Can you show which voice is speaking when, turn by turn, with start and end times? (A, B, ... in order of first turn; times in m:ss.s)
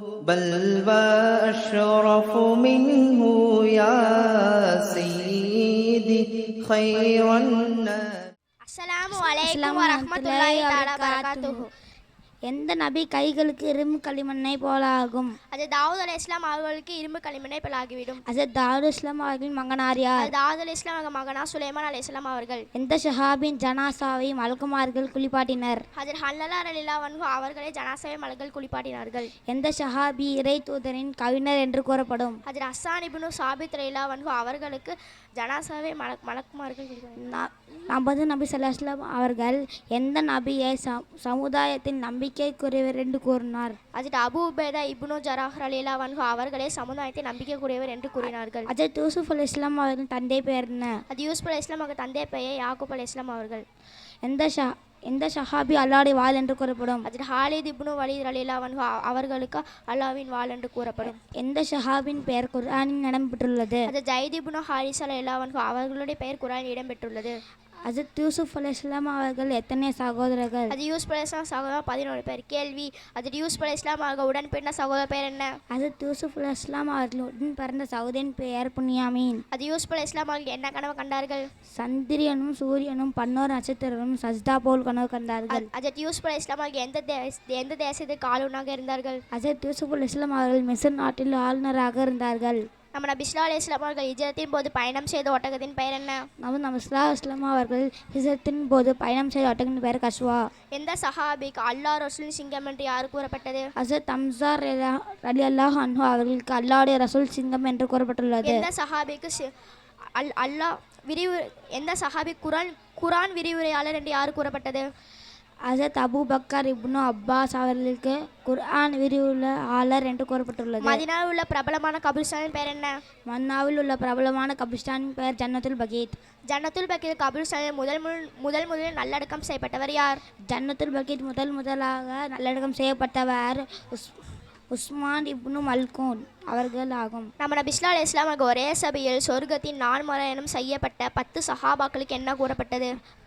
0:00.2-0:08.0 A
0:08.6-0:11.7 B
0:09.1-0:11.6 C
0:12.5-0:15.3 C
0:15.5-0:18.2 B
0:18.3-0:20.3 C
0:20.2-0:22.6 B
0:22.7-0:25.8 C
0:26.0-0:29.3 B
0:29.5-0:32.4 C
0:32.4-0:37.2 B
0:37.2-0:43.8 C
0:43.9-0:48.7 B
0:48.2-0:51.0 C
0:51.1-0:53.6 B
0:54.2-0:57.1 C
0:57.0-1:01.1 B
1:01.0-1:03.9 C
1:03.9-1:07.4 B
1:07.9-1:10.7 C
1:10.7-1:15.5 B
1:15.7-1:19.4 C
1:19.5-1:21.4 B
1:21.7-1:25.7 C
1:25.5-1:29.2 B
1:29.3-1:32.6 C
1:32.9-1:36.2 B
1:36.4-1:40.4 C
1:40.7-1:43.7 B
1:43.8-1:48.7 C
1:48.4-1:49.4 B
1:50.2-1:54.8 B
1:55.7-2:01.0 C
2:00.8-2:02.9 B
2:03.3-2:06.2 C
2:06.5-2:10.2 B
2:10.5-2:14.2 C
2:14.7-2:17.3 C
2:17.4-2:22.9 B